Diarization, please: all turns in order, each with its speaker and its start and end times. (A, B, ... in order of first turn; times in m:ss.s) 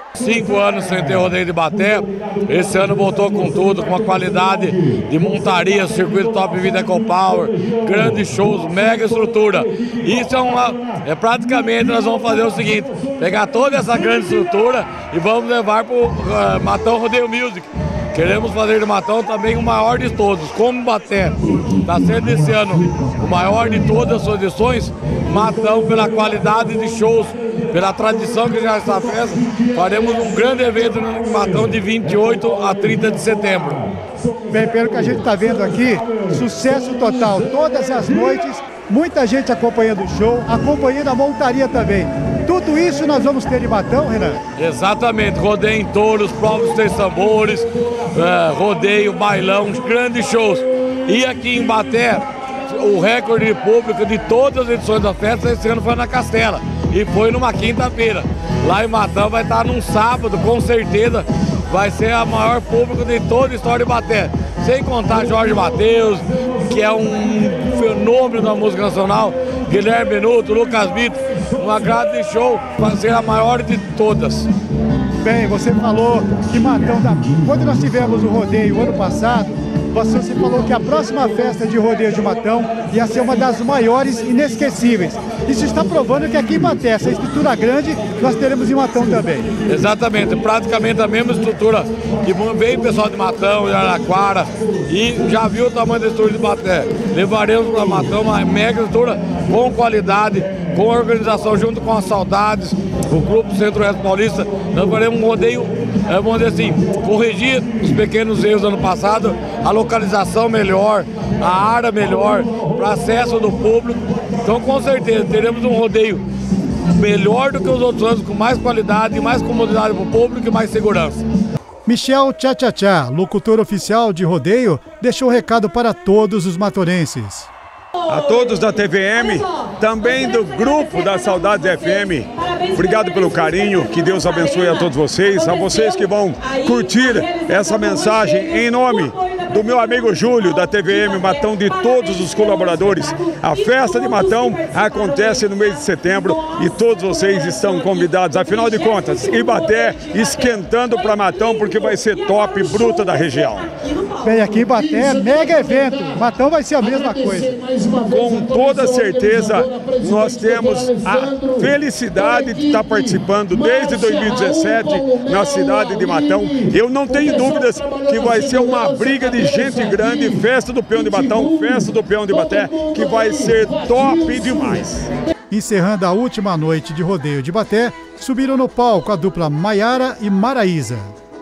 0:00.2-0:33.9 A
0:34.5-0:44.4 B
0:44.6-1:14.5 A
1:15.2-1:29.5 B
1:29.7-1:56.2 A
1:56.9-2:01.2 A
2:01.9-2:07.5 B
2:08.1-2:33.7 C
2:34.2-2:37.6 B
2:37.9-2:55.1 C
2:55.5-3:01.2 B